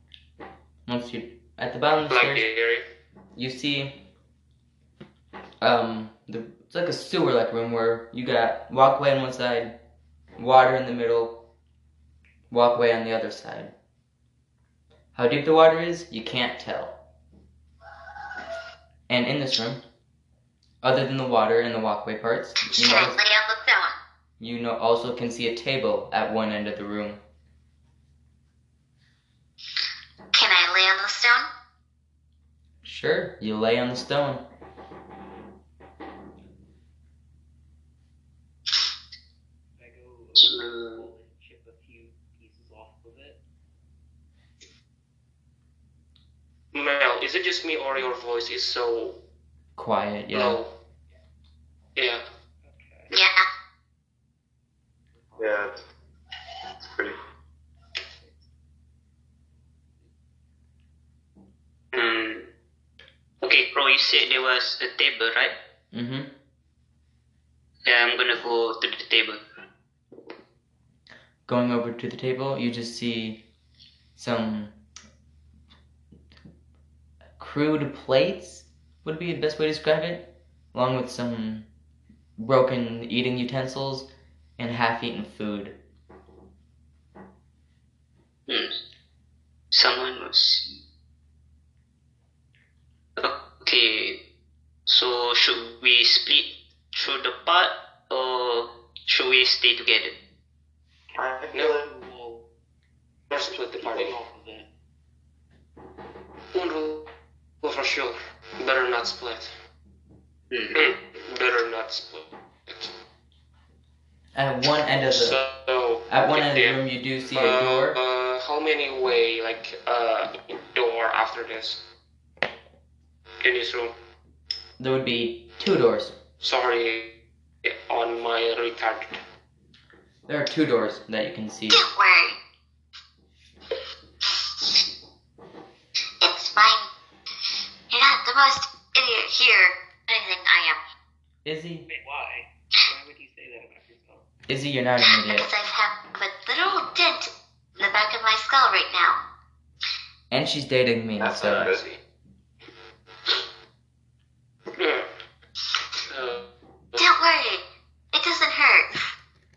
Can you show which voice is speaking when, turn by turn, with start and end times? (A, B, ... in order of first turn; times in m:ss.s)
0:00.9-0:02.5 A
0:02.1-0:02.8 B
0:03.4-0:04.0 A
0:05.6-0:09.8 A
0:10.4-0:11.4 A
0:12.5-0:13.7 A
0:15.2-0:17.0 A
0:19.1-0:19.8 A
0:20.8-0:23.2 A
0:22.6-0:24.0 C
0:24.4-0:27.2 A
0:30.3-0:31.5 C
0:32.8-0:34.5 A
0:39.8-0:43.4 D
0:40.4-0:41.1 E
0:46.7-0:49.2 B
0:49.8-0:50.6 A
0:50.3-0:50.7 B
0:52.0-0:52.2 B
0:52.6-0:53.1 D
0:53.1-0:53.4 C
0:55.2-0:55.8 D
0:55.4-0:55.8 F
0:56.8-0:57.2 F
1:01.9-1:02.5 E
1:03.4-1:05.6 E
1:05.9-1:06.3 A
1:07.9-1:09.4 E
1:11.5-1:13.4 A
1:14.2-1:14.8 A
1:17.4-1:21.7 A
1:22.4-1:25.8 A
1:28.5-1:28.8 E
1:29.7-1:30.7 E
1:33.2-1:34.2 E
1:34.9-1:40.2 E
1:41.1-1:42.5 D
1:41.2-1:41.9 F
1:41.5-1:41.8 B
1:43.3-1:44.2 B
1:43.8-1:44.7 D
1:46.5-1:47.1 B
1:47.6-1:49.5 B
1:50.5-1:50.9 E
1:50.7-1:52.9 B
1:54.4-1:55.4 A
1:55.0-1:56.8 B
1:56.1-1:58.0 A
1:57.3-2:01.8 B
2:03.4-2:03.9 B
2:04.8-2:06.2 A
2:06.4-2:09.2 B
2:10.3-2:11.9 A
2:11.7-2:12.4 C
2:16.2-2:16.9 C
2:17.9-2:20.8 C
2:21.4-2:21.9 A
2:21.9-2:24.2 D
2:24.5-2:25.5 A
2:25.0-2:29.2 C
2:30.3-2:31.7 A
2:31.2-2:31.8 F
2:31.2-2:32.0 B
2:34.8-2:35.1 B
2:36.1-2:37.1 B
2:37.0-2:39.1 C